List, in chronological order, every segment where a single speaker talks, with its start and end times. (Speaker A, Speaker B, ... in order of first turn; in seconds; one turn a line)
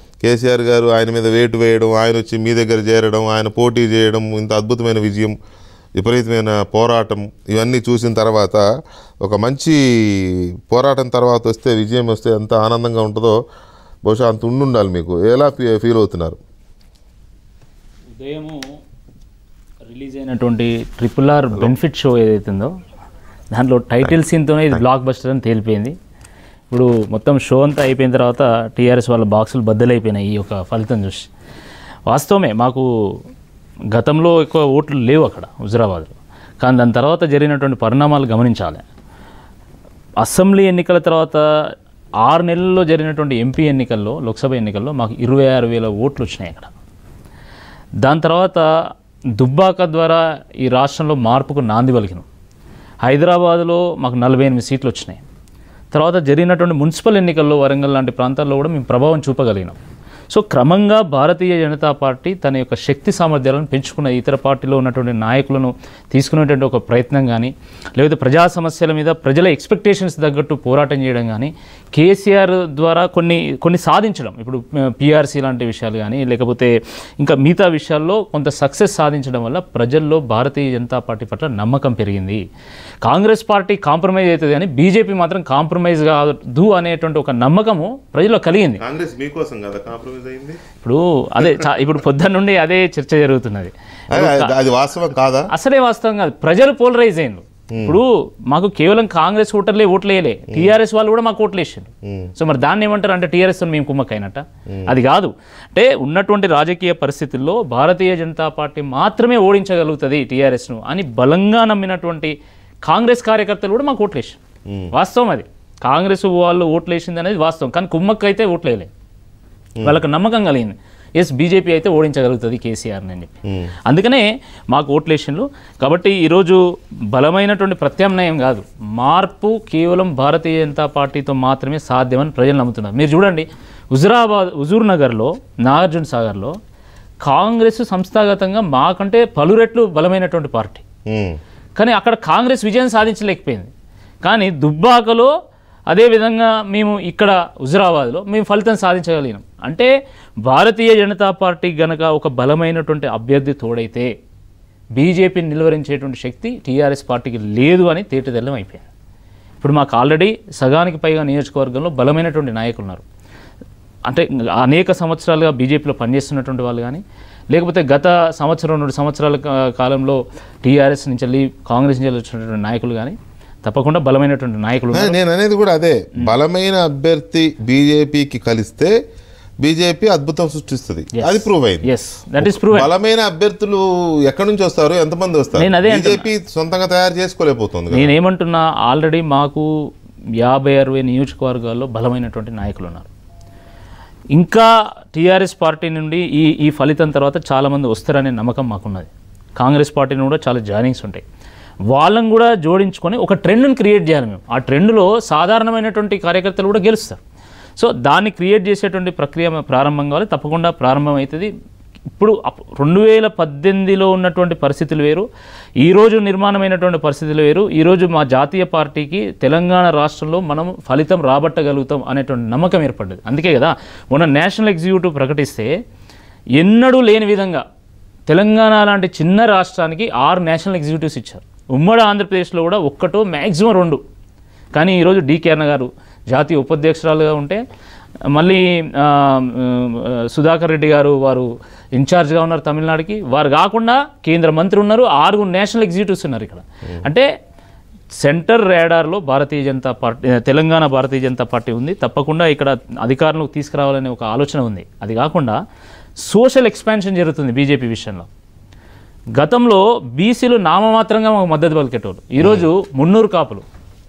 Speaker A: 0.2-5.3
Speaker A: 6.0-8.6
Speaker A: 9.2-13.3
Speaker A: 14.1-16.4
Speaker B: 18.1-18.8
Speaker B: 19.9-22.7
Speaker B: 23.5-25.9
Speaker B: 26.7-31.3
Speaker B: 32.1-32.9
Speaker B: 33.9-38.8
Speaker B: 40.2-41.4
Speaker B: 42.2-46.7
Speaker B: 48.0-48.6
Speaker B: 49.4-52.2
Speaker B: 53.0-55.2
Speaker B: 55.9-59.8
Speaker B: 60.3-82.4
Speaker B: 83.0-88.8
Speaker A: 88.8-90.6
Speaker B: 90.8-94.5
Speaker A: 94.1-95.5
Speaker B: 95.5-112.3
Speaker A: 97.7-98.0
Speaker B: 112.8-114.4
Speaker B: 114.9-118.9
Speaker B: 119.8-136.5
Speaker B: 137.2-140.8
Speaker A: 141.1-141.4
Speaker B: 141.8-143.7
Speaker B: 144.2-145.3
Speaker B: 145.9-149.9
Speaker B: 150.4-154.1
Speaker B: 155.0-158.8
Speaker B: 159.6-163.0
Speaker B: 164.1-175.2
Speaker A: 174.9-178.9
Speaker A: 179.6-181.8
Speaker B: 181.2-182.9
Speaker A: 182.4-188.1
Speaker B: 185.6-186.3
Speaker B: 187.9-189.7
Speaker B: 190.4-193.1
Speaker B: 194.3-201.2
Speaker B: 201.9-207.2
Speaker B: 207.8-211.5
Speaker B: 212.1-215.2
Speaker B: 215.8-225.7
Speaker B: 226.6-227.6
Speaker B: 228.3-234.0
Speaker B: 234.7-237.6
Speaker B: 238.3-247.3
Speaker B: 248.2-255.6
Speaker B: 256.2-258.3
Speaker B: 259.4-263.6
Speaker A: 262.4-262.7